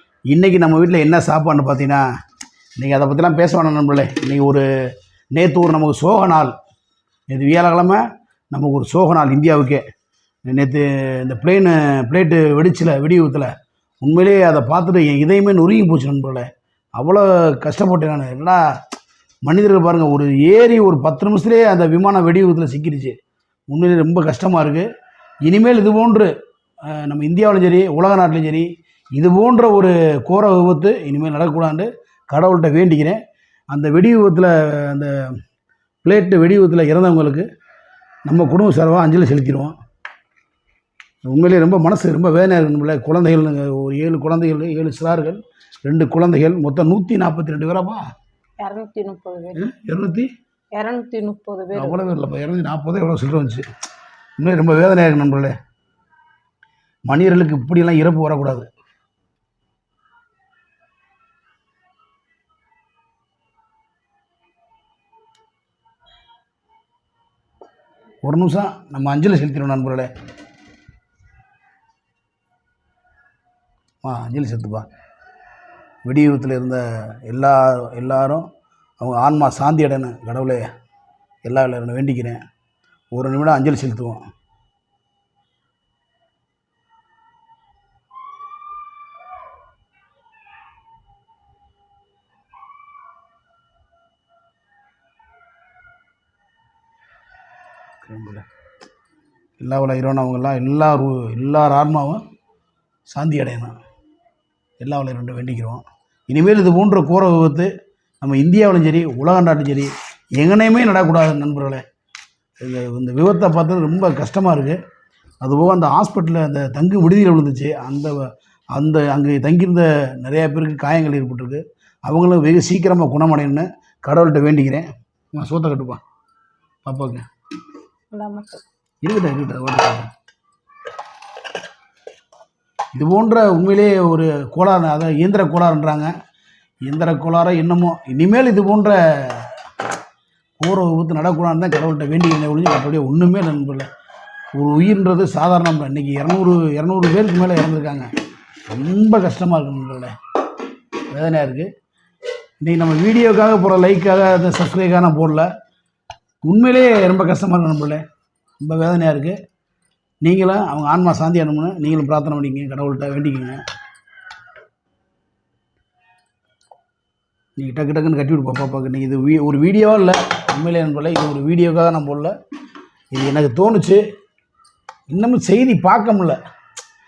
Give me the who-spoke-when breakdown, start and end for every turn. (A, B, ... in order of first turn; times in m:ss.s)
0:00.3-0:02.0 A
0:02.8-0:04.6 A
0:05.3-0:06.5 A
0:07.3-0:09.8 A
0:10.5-0:13.5 A
0:14.0-0:18.6 A
0:19.4-0:23.2 A
0:23.7-0:24.9 A
0:25.4-0:26.3 A
0:26.9-0:33.2 A
0:33.7-0:35.3 A
0:36.0-0:37.4 A
0:38.3-0:39.8 A
0:41.2-0:48.0 A
0:48.6-0:49.6 B
0:49.6-0:50.3 A
0:50.7-0:52.0 B
0:51.7-0:53.7 A
0:54.4-0:55.6 A
0:57.1-0:58.7 A
1:08.2-1:10.1 A
1:14.0-1:14.9 A
1:16.0-1:18.5 A
1:19.0-1:20.6 A
1:21.4-1:22.4 A
1:23.1-1:24.2 A
1:38.0-1:38.4 A
1:39.6-1:42.2 A
1:43.1-1:43.8 A
1:44.8-1:47.7 A
1:48.2-1:51.8 A
1:52.6-1:54.8 A
1:55.4-2:06.0 A
2:06.9-2:07.2 A
2:08.1-2:08.6 B
2:09.0-2:10.1 A
2:13.0-2:16.1 A
2:16.9-2:19.6 A
2:20.6-2:23.9 A
2:24.6-2:28.1 A
2:28.7-2:30.1 A
2:31.1-2:31.7 A
2:32.6-2:35.5 A
2:36.4-2:38.0 A
2:38.6-2:39.4 A
2:40.2-2:43.6 A
2:47.6-2:52.3 A
2:53.1-2:54.0 A
2:55.1-2:56.4 A